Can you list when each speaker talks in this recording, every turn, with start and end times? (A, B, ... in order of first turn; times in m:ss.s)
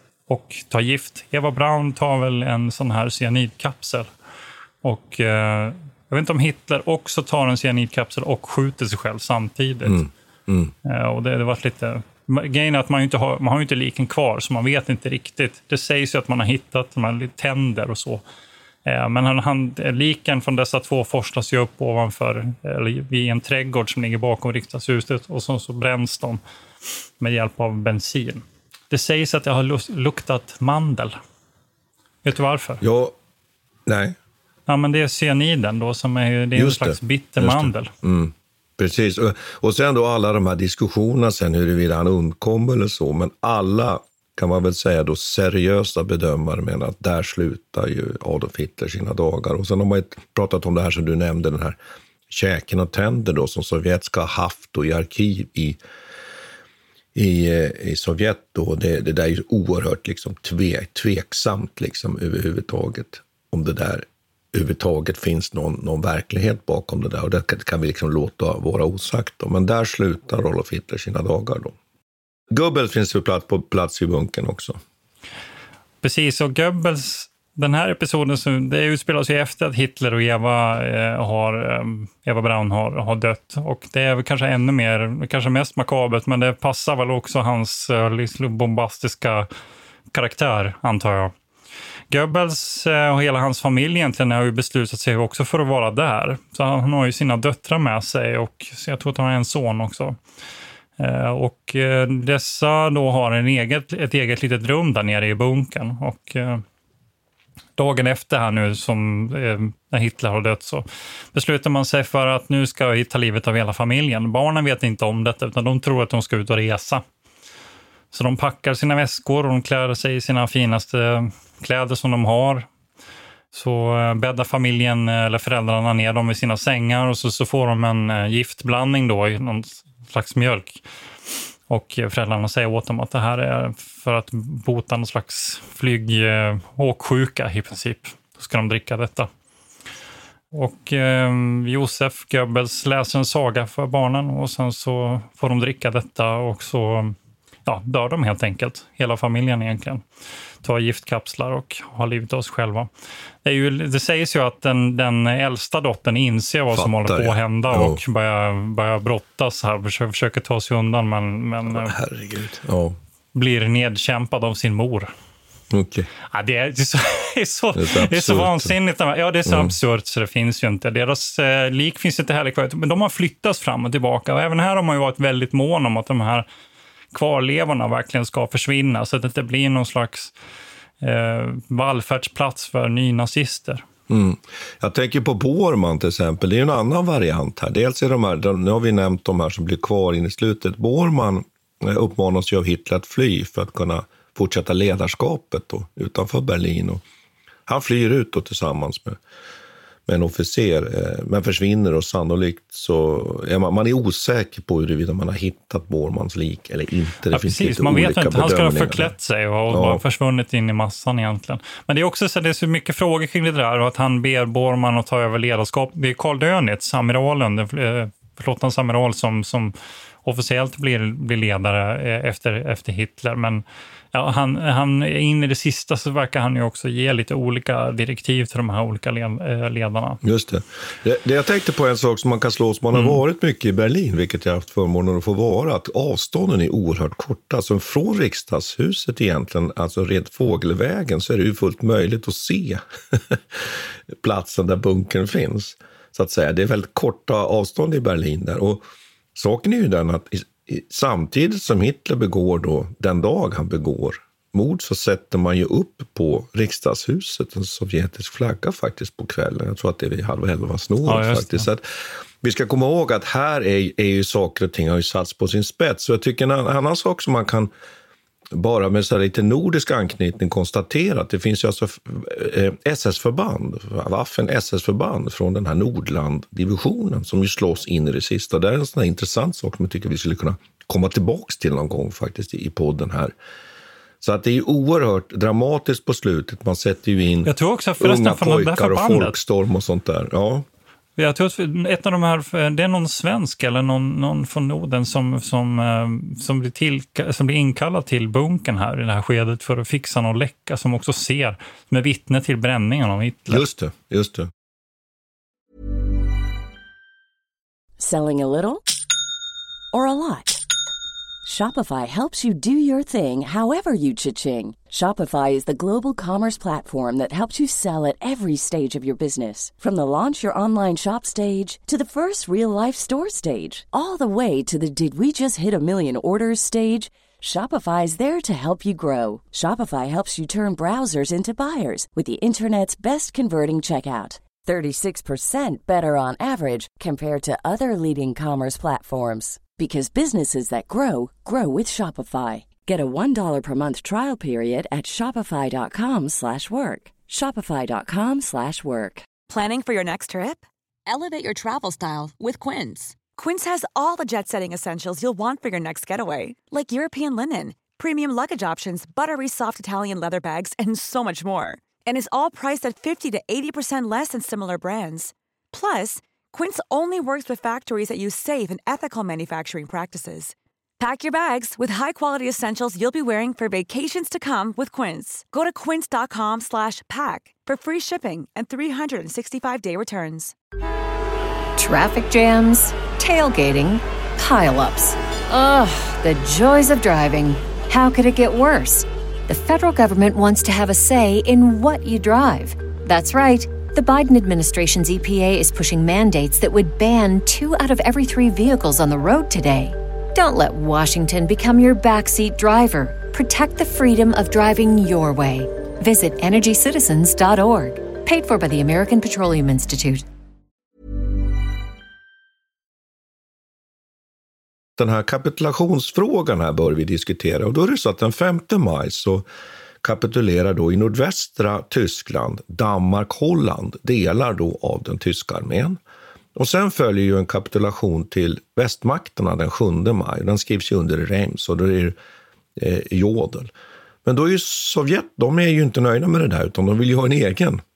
0:00.3-0:04.1 A
0:04.8-0:10.0 A
0:09.8-0:10.7 B
0:10.8-0:18.2 A
0:18.8-0:26.4 A
0:27.2-0:31.2 A
0:32.2-0:32.8 A
0:32.8-0:33.1 B
0:33.8-0:34.2 B
0:34.7-0:37.9 A
0:36.5-0:51.8 B
0:52.3-0:55.8 B
0:57.1-1:11.7 B
1:12.5-1:14.8 B
1:16.0-1:29.5 A
1:30.1-1:31.3 A
1:32.1-1:40.2 A
1:41.0-1:46.6 A
1:47.8-1:57.0 A
1:58.1-2:02.7 A
2:03.5-2:10.8 A
2:11.7-2:19.3 A
2:20.5-2:27.1 A
2:27.6-2:30.0 A
2:30.6-2:32.9 A
2:33.4-2:41.9 A
2:36.7-2:38.0 B
2:41.6-2:43.0 B
2:43.3-2:45.1 A
2:45.7-2:46.1 B
2:46.3-2:56.5 A
2:47.7-2:48.8 B
2:49.4-2:49.7 B
2:57.1-3:00.3 A
3:01.0-3:03.8 A
3:04.1-3:17.0 B
3:17.7-3:19.2 B
3:20.1-3:29.1 B
3:27.3-3:50.2 A
3:29.7-3:30.0 B
3:50.2-4:21.8 B
3:52.9-3:53.2 A
4:21.0-4:21.7 A
4:22.4-4:27.7 B
4:28.5-4:43.3 B
4:44.2-4:50.6 B
4:47.4-4:49.4 A
4:51.2-5:03.7 A
5:03.5-5:04.5 B
5:08.0-5:08.8 C
5:09.9-5:10.7 C
5:11.4-5:49.2 C
5:49.5-6:20.5 D
6:21.8-6:50.2 E
6:55.0-6:59.4 B
7:00.0-7:06.0 B
7:06.5-7:12.2 B
7:12.8-7:13.7 B
7:14.2-7:17.8 B